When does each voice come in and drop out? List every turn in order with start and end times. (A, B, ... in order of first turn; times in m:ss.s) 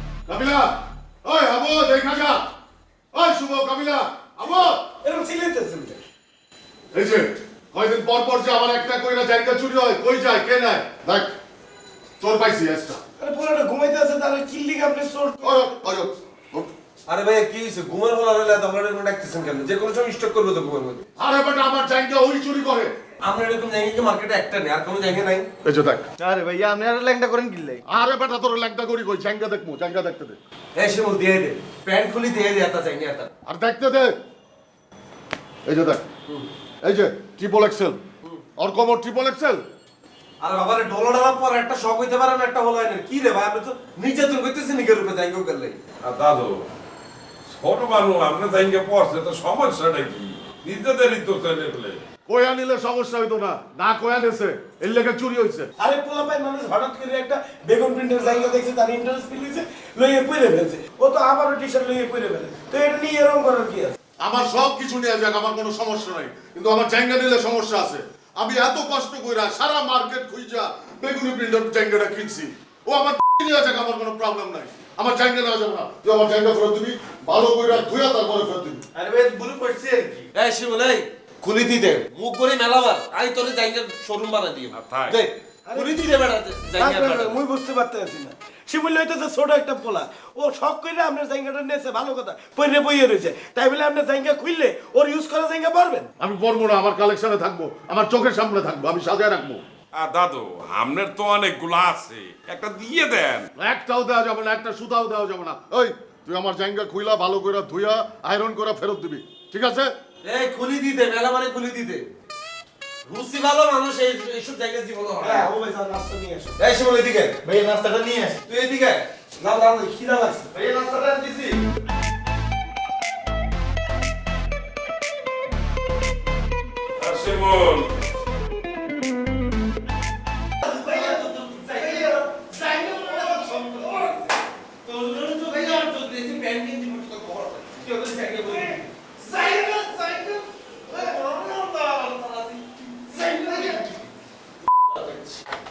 0:00.3-0:02.5 A
0:03.1-0:04.8 A
0:05.0-0:06.0 B
0:06.9-0:11.3 A
0:12.2-0:13.0 A
0:13.2-0:15.5 B
0:15.4-0:16.7 A
0:17.1-0:21.0 C
0:21.2-0:22.9 A
0:23.2-0:25.5 C
0:25.6-0:26.1 A
0:26.2-0:27.8 D
0:27.9-0:30.4 A
0:30.8-0:33.3 C
0:33.4-0:34.1 A
0:35.6-0:36.0 A
0:36.8-0:38.0 A
0:38.6-0:39.6 A
0:40.4-0:45.8 C
0:46.0-0:46.6 E
0:47.5-0:52.0 E
0:52.3-0:55.7 A
0:55.8-1:03.9 B
1:04.2-1:18.8 A
1:18.9-1:20.3 D
1:20.3-1:27.4 C
1:24.7-1:25.2 E
1:25.7-1:26.0 B
1:26.8-1:36.1 B
1:36.2-1:39.6 A
1:39.9-1:43.5 E
1:43.6-1:49.9 A
1:50.2-1:52.0 C
1:53.0-1:55.5 C
1:55.2-1:56.6 B
1:56.6-1:57.4 C
1:57.4-1:58.4 D
1:58.4-1:59.9 C
1:59.6-2:00.5 B
2:00.5-2:01.6 D
2:07.0-2:07.9 E
2:10.6-2:14.2 C
2:14.8-2:23.9 C
2:24.9-2:25.4 C